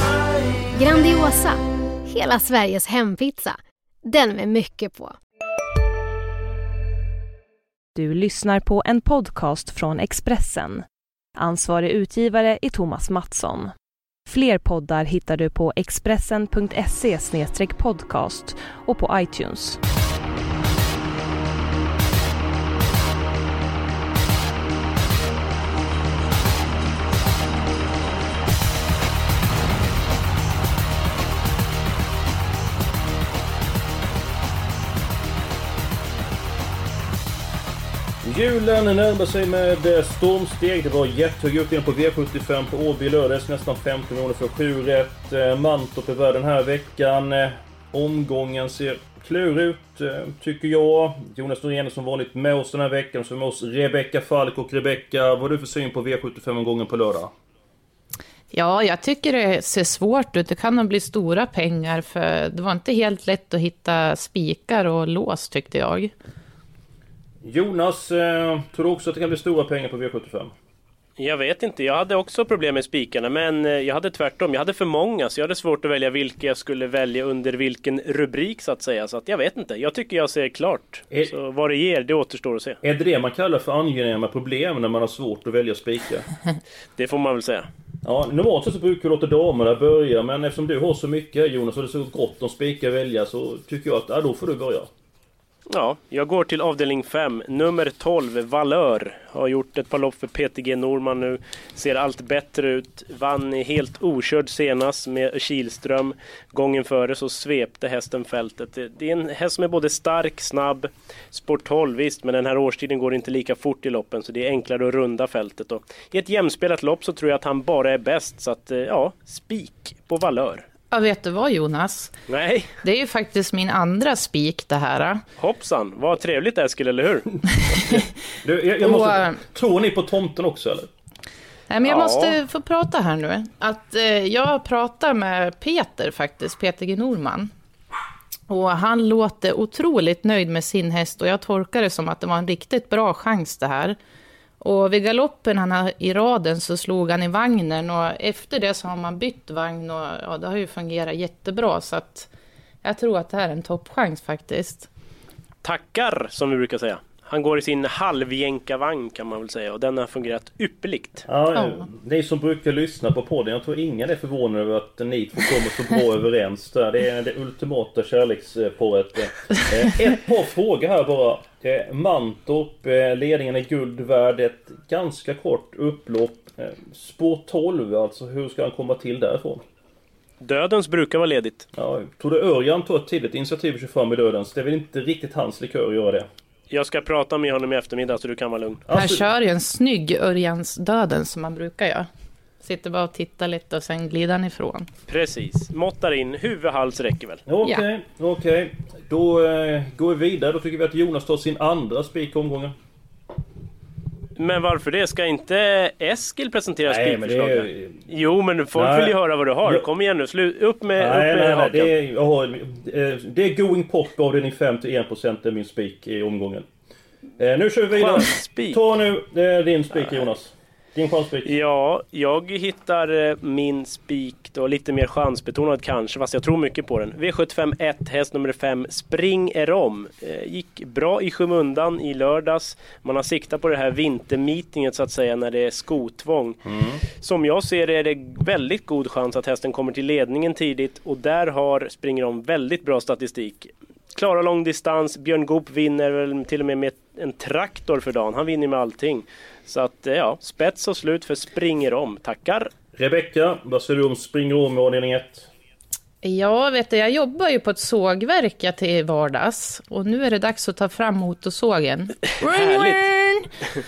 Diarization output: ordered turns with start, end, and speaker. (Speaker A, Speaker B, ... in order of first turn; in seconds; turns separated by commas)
Speaker A: 0.7-5.2, Speaker B: 8.0-10.8, Speaker B: 11.3-13.7, Speaker B: 14.3-19.8, Speaker C: 38.2-57.3, Speaker D: 58.5-66.1, Speaker C: 67.4-70.5, Speaker E: 71.2-82.8, Speaker C: 82.8-86.3, Speaker E: 87.0-87.7, Speaker C: 88.0-94.9, Speaker E: 95.7-120.7, Speaker D: 120.9-122.1, Speaker E: 122.3-122.7, Speaker D: 122.8-125.2, Speaker E: 125.4-127.4, Speaker C: 127.9-130.9, Speaker D: 128.8-129.4, Speaker D: 131.7-137.5, Speaker E: 131.8-132.3, Speaker D: 138.5-144.0, Speaker D: 144.6-152.3, Speaker D: 152.8-154.9, Speaker E: 155.6-161.2, Speaker C: 161.3-179.6, Speaker D: 161.5-161.8, Speaker E: 180.4-181.7, Speaker C: 181.7-186.3, Speaker E: 186.7-188.8, Speaker C: 188.9-189.3, Speaker D: 188.9-192.1, Speaker D: 192.6-194.9, Speaker E: 195.1-197.4, Speaker C: 197.4-202.7, Speaker E: 204.3-211.9, Speaker C: 206.8-208.0, Speaker C: 208.7-209.8, Speaker C: 211.0-216.7, Speaker C: 217.4-221.5, Speaker E: 217.9-218.8, Speaker E: 221.4-236.6, Speaker C: 236.6-237.0, Speaker E: 237.2-252.7, Speaker C: 252.9-255.5, Speaker D: 256.2-263.5, Speaker E: 262.4-263.0